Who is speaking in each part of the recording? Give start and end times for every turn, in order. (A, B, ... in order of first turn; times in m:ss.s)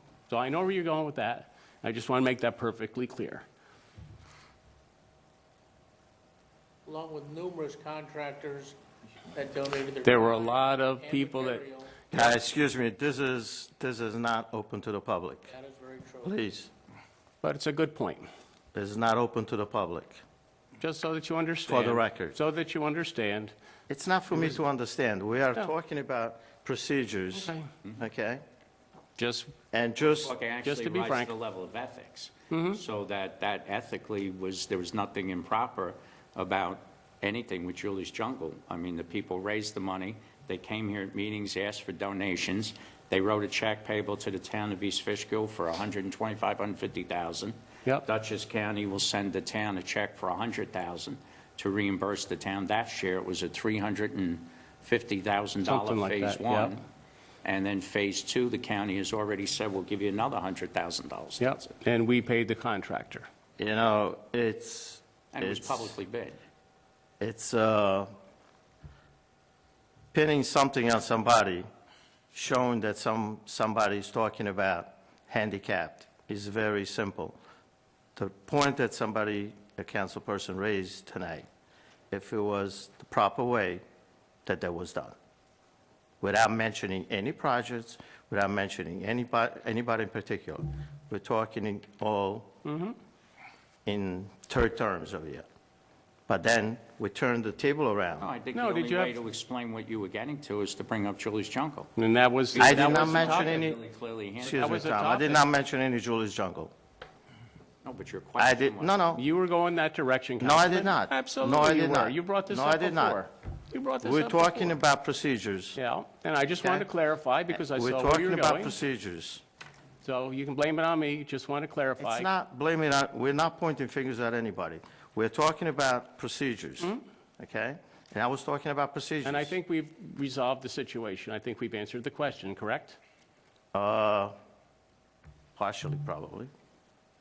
0:00.3-0:03.4 A
0:06.8-0:08.8 B
0:09.3-0:12.0 B
0:10.0-0:11.6 A
0:12.1-0:15.5 C
0:15.5-0:16.3 B
0:16.2-0:16.7 C
0:17.4-0:18.3 A
0:18.7-0:20.2 C
0:20.8-0:23.5 A
0:21.6-0:22.4 C
0:23.9-0:28.4 C
0:29.2-0:29.5 A
0:29.7-0:30.3 C
0:30.1-0:56.8 D
0:30.6-0:31.3 A
0:32.5-0:32.8 A
0:55.6-0:56.7 A
0:57.4-1:01.7 D
1:01.4-1:03.3 A
1:03.6-1:05.9 C
1:05.3-1:06.4 D
1:07.2-1:08.1 C
1:10.1-1:11.6 C
1:12.3-1:17.4 C
1:18.2-1:21.4 C
1:22.1-1:23.8 C
1:24.4-1:25.1 C
1:26.2-1:32.5 C
1:32.6-1:33.0 A
1:33.8-1:35.4 C
1:36.3-1:38.3 C
1:38.2-1:41.9 D
1:38.5-1:39.1 A
1:42.0-1:43.6 A
1:42.5-1:44.8 D
1:42.6-1:43.8 C
1:44.4-1:46.7 C
1:44.4-1:45.4 A
1:47.8-1:49.0 D
1:48.4-1:49.2 C
1:49.1-1:54.8 A
1:50.4-1:53.2 C
1:54.0-1:55.8 C
1:55.8-1:58.8 A
1:57.6-1:59.4 C
2:00.0-2:02.3 A
2:02.0-2:09.5 C
2:09.2-2:13.0 A
2:13.7-2:14.3 C
2:15.6-2:16.5 C